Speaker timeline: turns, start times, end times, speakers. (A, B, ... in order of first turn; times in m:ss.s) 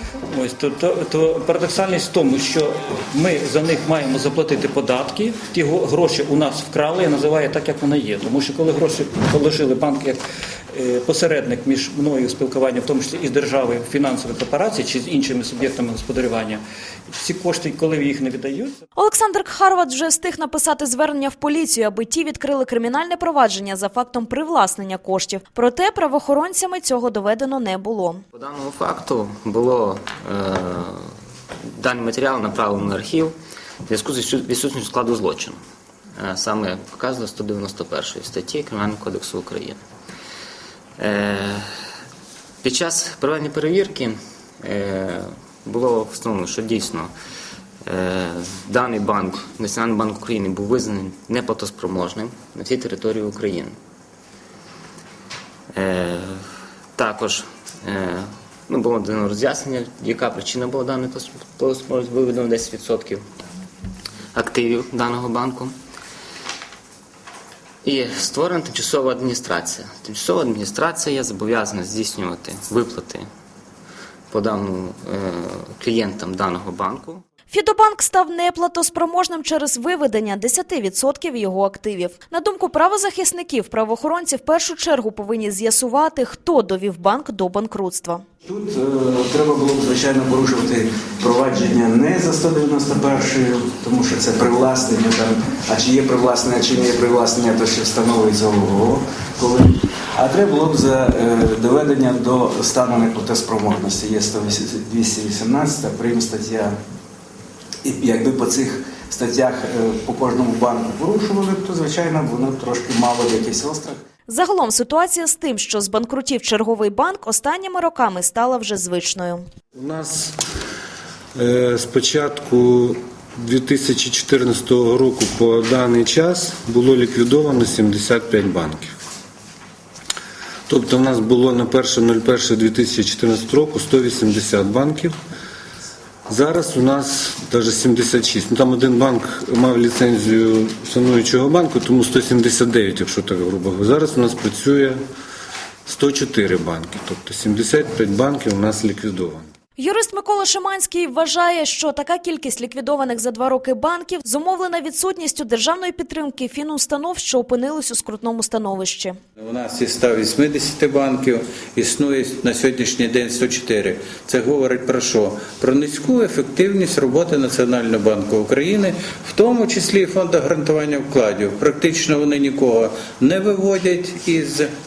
0:00.3-0:10.2 A
0:10.7-0:16.6 A
0:17.2-0:18.8 A
0:19.0-0:28.2 B
0:28.3-0:31.1 C
0:31.8-0:33.4 C
0:33.9-0:35.6 C
0:36.2-0:39.8 C
0:41.0-0:41.7 C
0:42.6-0:47.1 C
0:47.9-0:53.8 C
0:55.7-0:56.4 C
0:57.0-1:03.2 C
1:04.3-1:05.8 C
1:07.8-1:13.3 C
1:14.3-1:17.2 C
1:17.5-1:28.2 B
1:28.4-1:46.7 D
1:47.8-1:54.0 D
1:54.3-1:59.4 B
1:59.8-2:00.4 E
2:01.4-2:08.9 E
2:10.7-2:15.1 E
2:16.3-2:25.0 E
2:25.9-2:29.5 E
2:29.8-2:39.2 B
2:39.4-2:54.7 F